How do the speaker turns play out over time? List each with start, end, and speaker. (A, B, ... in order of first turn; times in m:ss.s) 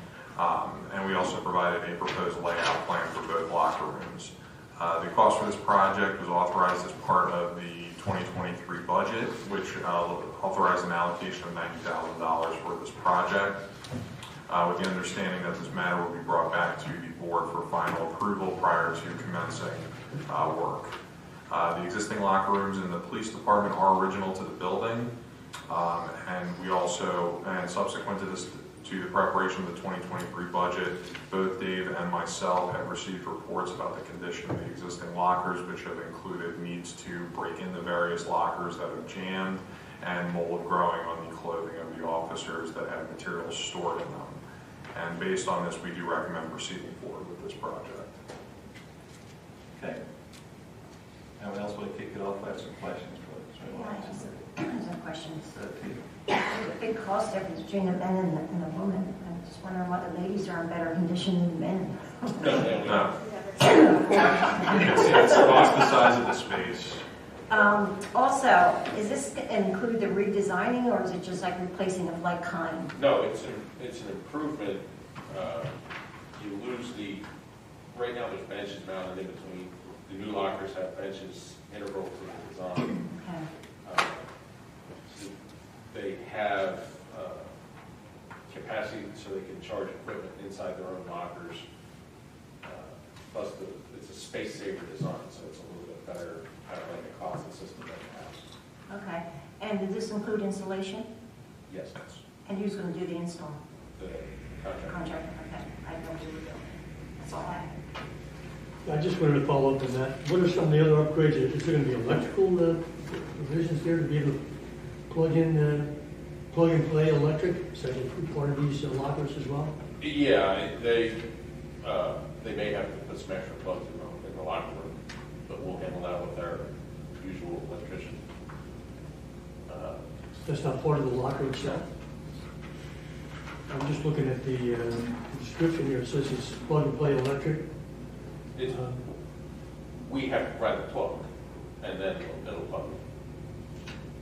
0:00.4-0:13.6 A
0:14.5-0:20.9 A
0:21.5-0:25.1 A
0:25.7-0:44.4 A
0:44.9-0:48.2 A
0:51.4-0:54.4 B
0:53.7-0:55.5 C
0:55.5-0:56.0 B
0:56.3-1:02.7 C
1:02.4-1:03.2 D
1:02.8-1:03.1 A
1:03.6-1:04.5 C
1:04.4-1:07.0 A
1:04.8-1:05.7 D
1:07.5-1:12.9 C
1:12.9-1:15.7 D
1:16.4-1:17.2 D
1:17.9-1:23.0 D
1:22.9-1:23.4 C
1:23.8-1:24.2 D
1:25.1-1:25.3 D
1:25.9-1:27.5 D
1:28.5-1:31.6 D
1:32.6-1:38.4 D
1:38.9-1:41.1 C
1:41.7-1:42.0 D
1:42.4-1:43.6 C
1:44.0-1:45.0 D
1:44.9-1:47.7 C
1:48.8-1:54.4 E
1:55.1-1:55.9 E
1:56.5-1:59.7 E
2:00.0-2:01.2 D
2:01.8-2:04.9 D
2:05.5-2:06.6 D
2:07.2-2:08.2 D
2:09.7-2:10.0 D
2:10.4-2:11.8 E
2:13.7-2:17.6 E
2:18.6-2:18.9 D
2:18.7-2:19.0 E
2:20.0-2:21.2 D
2:21.8-2:23.0 D